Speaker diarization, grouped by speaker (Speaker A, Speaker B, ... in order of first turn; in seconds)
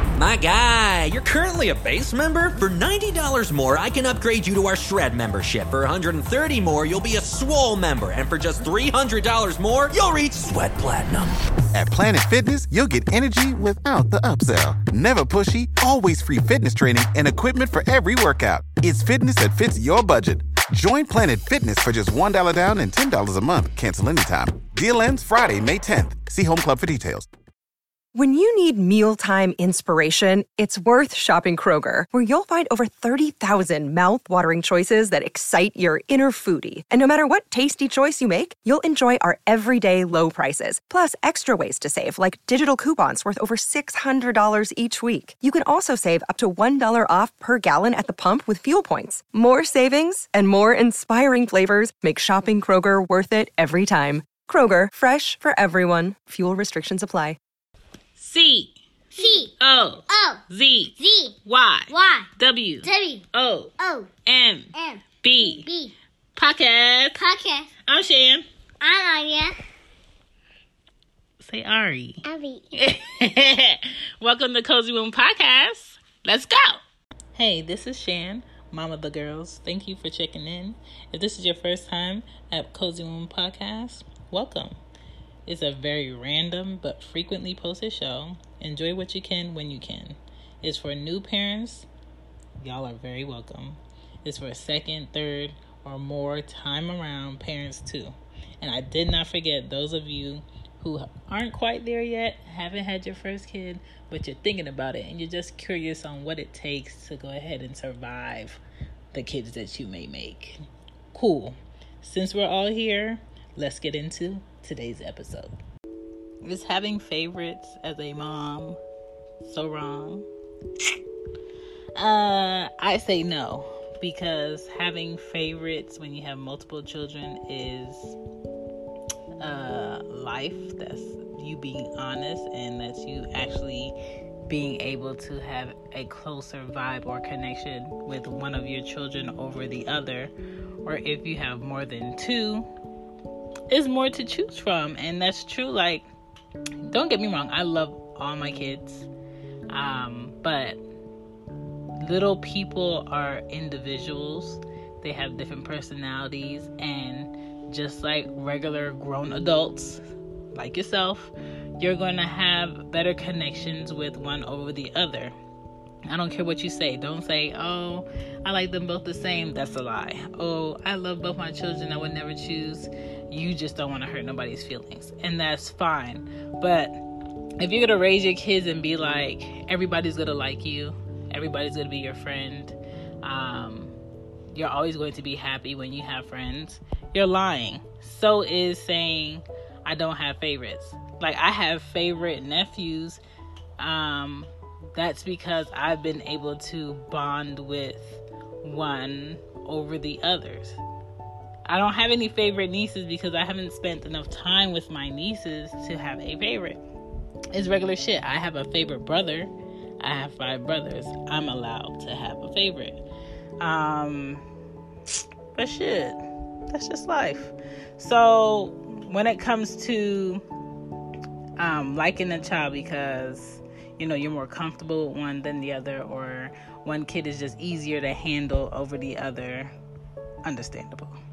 Speaker A: 0.2-11.3
Speaker B: 11.7-27.3
Speaker C: 28.1-57.4
Speaker D: 58.2-63.7, 64.2-65.7, 66.3-67.2, 67.9-68.5, 71.4-76.8, 77.3-84.8, 85.5-91.9, 92.6-108.6, 109.1-110.6, 111.1-115.5, 116.4-118.8, 119.4-120.3, 121.9-128.2, 129.4-133.9, 134.5-140.3, 140.8-142.7, 143.7-146.1, 146.9-149.1, 149.7-150.8, 152.0-165.3, 166.1-177.0, 177.6-183.9, 184.5-193.2, 193.8-200.8, 201.7-206.8, 207.5-213.0, 213.6-214.4, 215.5-216.2, 216.7-220.4, 221.6-229.7, 230.4-231.2
Speaker E: 59.1-59.5, 60.1-60.4, 61.0-61.3, 61.9-62.3, 62.8-63.2, 63.8-64.1, 64.7-65.9, 67.2-67.7, 68.8-69.5, 72.2-72.7